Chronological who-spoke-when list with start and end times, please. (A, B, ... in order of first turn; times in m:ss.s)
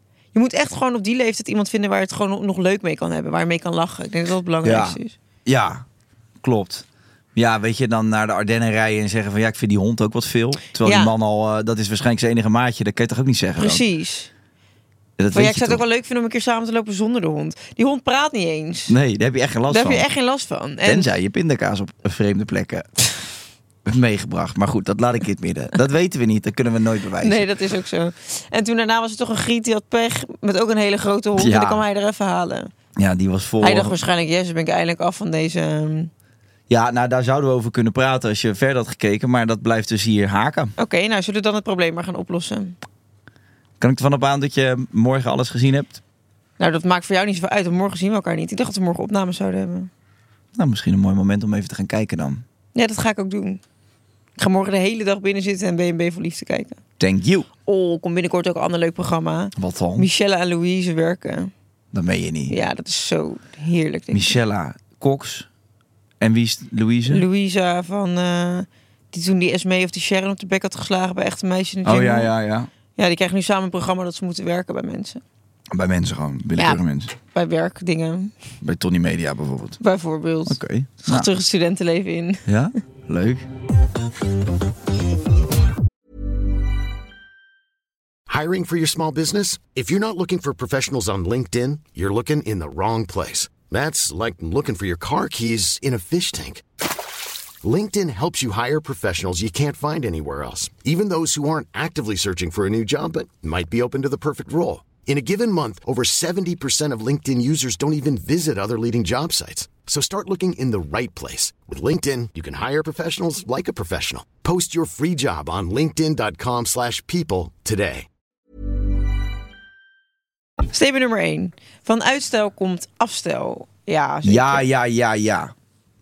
0:00.3-0:05.2 A
0:04.6-0:05.8 B
0:06.4-0:13.8 B
0:10.8-0:11.1 A
0:13.6-0:14.3 A
0:15.2-0:15.8 B
0:15.3-0:18.9 A
0:18.9-0:20.1 B
0:19.7-0:21.1 A
0:20.8-0:22.9 B
0:23.8-0:27.5 B
0:27.2-0:32.7 A
0:31.4-0:31.8 B
0:33.0-0:34.0 B
0:33.6-0:36.1 A
0:36.7-0:40.7 B
0:40.8-0:42.8 A
0:43.8-0:46.0 B
0:46.6-0:49.9 A
0:50.5-0:52.4 B
0:52.7-0:53.6 A
0:54.4-0:56.8 A
0:57.0-0:57.5 B
0:57.7-1:01.5 A
0:59.6-1:00.1 B
1:01.9-1:02.5 B
1:02.5-1:04.4 A
1:04.1-1:05.5 B
1:06.2-1:07.2 B
1:07.1-1:12.3 A
1:11.8-1:12.7 B
1:13.0-1:15.2 A
1:15.7-1:17.1 B
1:17.3-1:18.3 A
1:18.6-1:19.8 B
1:19.8-1:22.4 A
1:20.4-1:21.3 B
1:22.4-1:23.4 B
1:28.3-1:36.6 C
1:37.6-1:58.1 C
2:00.7-2:04.6 A
2:04.2-2:05.5 B